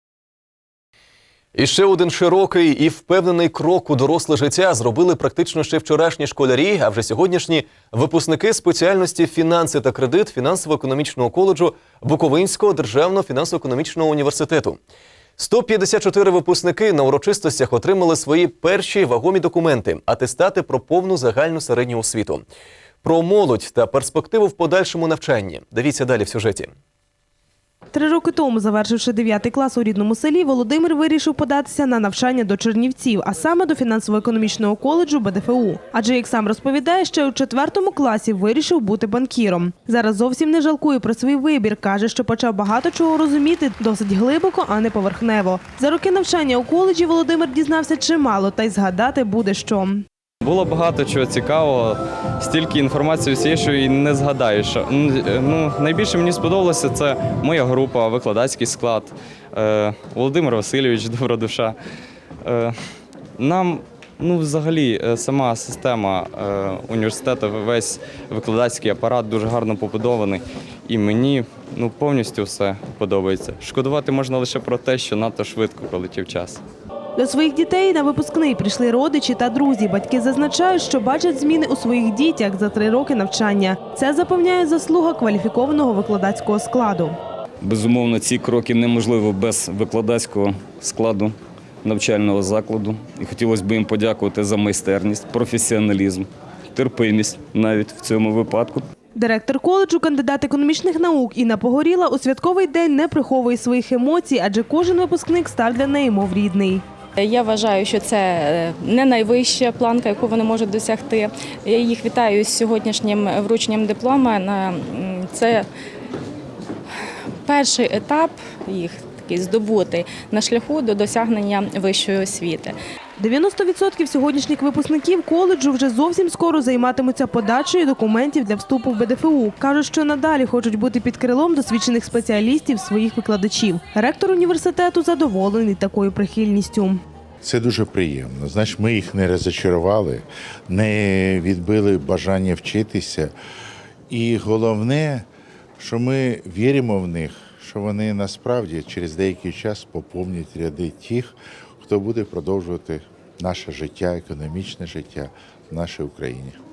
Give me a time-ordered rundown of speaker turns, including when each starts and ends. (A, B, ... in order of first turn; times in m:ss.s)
0:01.5-0:14.8 A
0:15.4-0:22.4 A
0:23.0-0:26.7 A
0:27.9-0:50.0 B
0:50.4-1:01.8 C
1:02.4-1:02.8 C
1:03.4-1:16.6 C
1:17.2-1:27.2 B
1:27.6-1:38.8 D
1:39.1-1:46.8 B
1:47.2-1:55.7 E
1:57.4-2:02.7 E
2:03.2-2:17.0 B
2:17.4-2:23.3 F
2:24.1-2:25.3 F
2:25.8-2:36.6 F